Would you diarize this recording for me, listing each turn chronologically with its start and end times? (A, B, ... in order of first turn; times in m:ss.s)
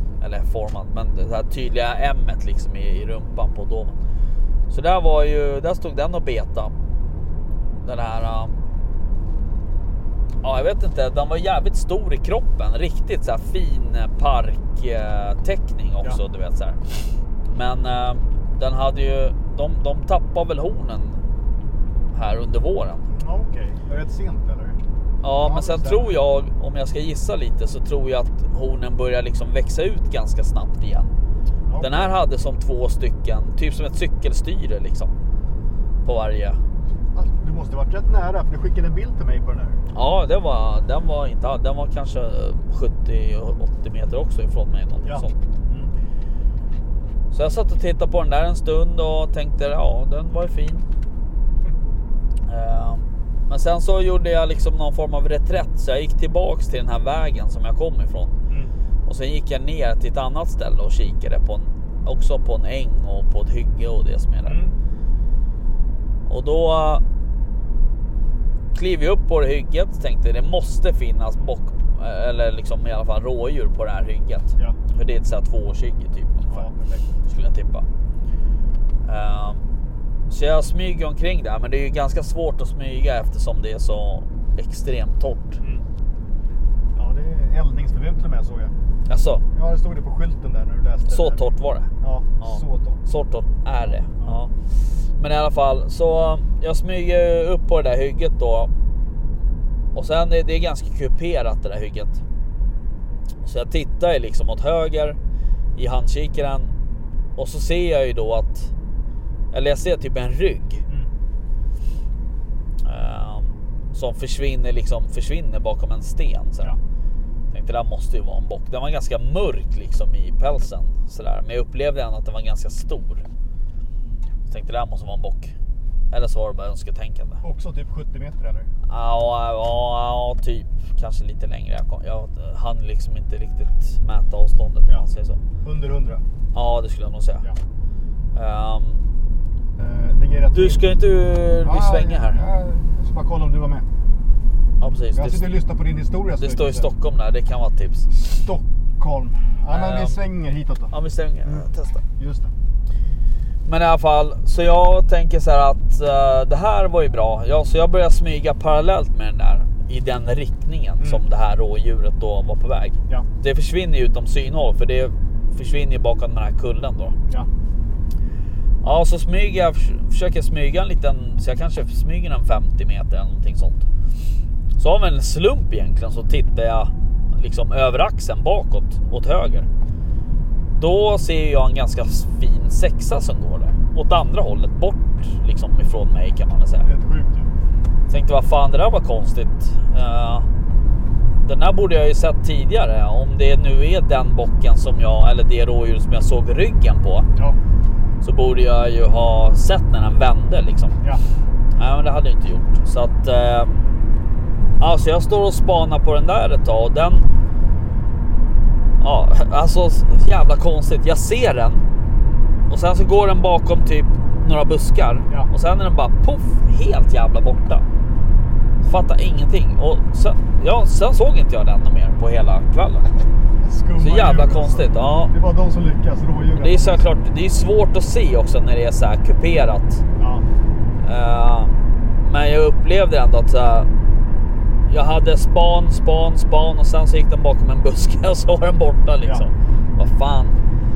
0:00.2-0:04.0 A
0:04.7-0:06.7 A
0:07.8-0:08.6 A
0:10.4-0:16.8 A
0:17.5-0:21.2 A
0:22.1-0:23.1 A
0:23.1-0:24.8 B
0:25.2-0:31.1 A
0:25.4-0:26.0 B
0:31.7-0:32.1 B
0:31.8-0:35.1 A
0:36.0-0:36.6 A
0:37.1-0:39.8 B
0:39.9-0:45.4 A
0:45.0-0:45.9 B
0:47.3-0:50.8 A
0:52.5-0:58.3 A
0:59.1-1:04.6 A
1:04.5-1:04.7 B
1:06.3-1:07.0 A
1:08.7-1:16.7 A
1:16.5-1:17.1 B
1:17.3-1:17.8 A
1:19.1-1:19.6 A
1:20.3-1:25.6 A
1:27.0-1:28.7 B
1:29.1-1:29.4 A
1:29.5-1:31.5 B
1:31.1-1:31.9 A
1:32.0-1:33.0 B
1:32.4-1:34.5 A
1:35.2-1:38.7 A
1:40.0-1:42.2 A
1:43.4-1:45.2 A
1:45.8-1:46.7 A
1:47.4-1:48.7 A
1:49.5-1:50.8 A
1:52.8-1:56.8 A
1:57.5-2:03.2 A
2:04.5-2:05.5 A
2:06.1-2:07.4 A
2:07.4-2:08.7 B
2:08.9-2:15.4 A
2:15.6-2:16.2 B
2:16.5-2:17.5 A
2:18.3-2:19.0 A
2:19.8-2:20.8 B
2:20.5-2:22.4 A
2:21.6-2:23.9 B
2:24.8-2:25.5 A
2:25.2-2:26.9 B
2:26.4-2:28.1 A
2:28.1-2:30.9 B
2:29.7-2:30.2 A
2:30.9-2:32.0 A
2:32.2-2:32.5 B
2:33.7-2:47.2 A
2:48.8-2:53.8 A
2:54.8-2:59.7 A
3:00.8-3:06.9 A
3:06.8-3:07.5 B
3:08.1-3:10.5 A
3:11.4-3:17.3 A
3:18.2-3:21.0 A
3:21.8-3:23.7 A
3:24.8-3:27.3 A
3:29.0-3:31.8 A
3:32.7-3:37.8 A
3:38.8-3:43.1 A
3:43.6-3:47.0 B
3:44.0-3:45.3 A
3:46.6-3:50.0 A
3:50.2-3:50.4 B
3:51.0-3:51.7 A
3:52.2-3:53.9 A
3:54.9-4:00.6 A